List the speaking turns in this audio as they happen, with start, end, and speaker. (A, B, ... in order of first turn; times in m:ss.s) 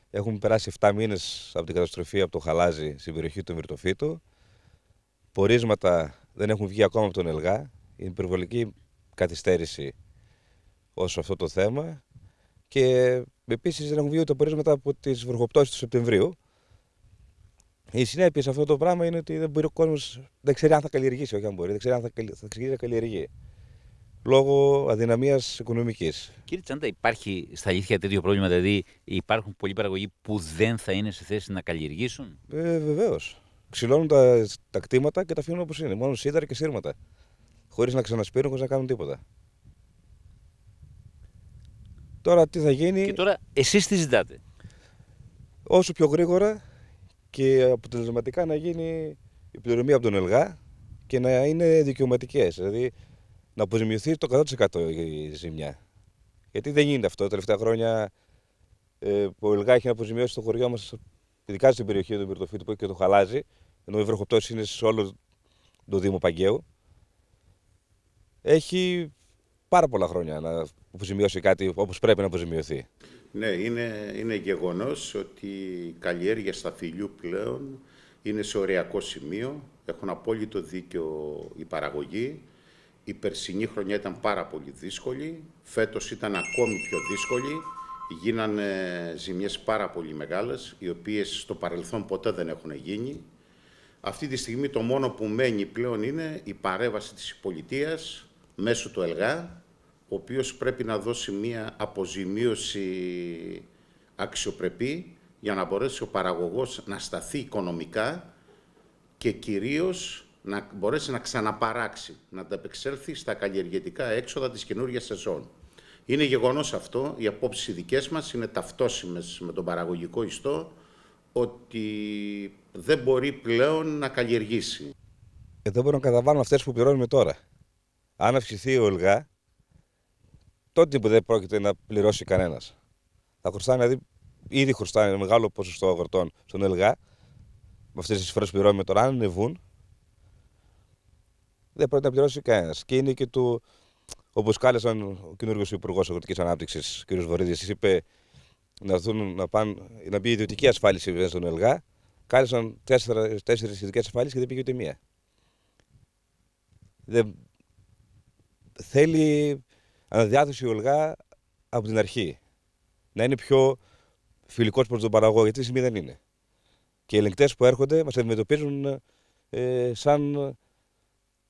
0:00.1-0:04.2 A
0:05.3-0:09.9 A
0:11.0-0:12.0 A
0:12.7-0:16.4 A
0:17.9-0:23.3 A
0:24.2-0:26.3 A
0:26.6-0:32.3 B
0:32.5-0:37.0 A
0:37.7-0:39.2 A
0:42.2-0:43.2 A
0:43.3-0:44.3 B
0:45.7-0:46.6 A
0:47.3-0:50.6 A
0:51.1-0:52.9 A
0:53.6-0:55.8 A
0:56.5-0:58.1 A
0:59.0-1:05.1 A
1:05.9-1:06.6 A
1:08.4-1:09.1 A
1:09.7-1:12.9 A
1:13.3-1:22.4 C
1:23.1-1:33.3 C
1:34.0-1:43.7 C
1:44.2-1:48.3 C
1:49.2-1:55.5 C
1:56.1-2:00.8 C
2:01.4-2:04.9 C
2:05.6-2:07.4 A
2:08.2-2:09.3 A
2:10.8-2:12.7 A
2:13.4-2:17.0 A
2:18.0-2:19.6 A
2:21.8-2:23.6 A
2:24.3-2:28.0 A
2:28.8-2:35.0 A
2:37.1-2:37.4 A
2:38.8-2:41.2 A
2:41.7-2:42.4 A
2:43.2-2:43.8 A
2:44.5-2:46.2 A
2:47.1-2:49.0 A
2:49.5-2:50.6 A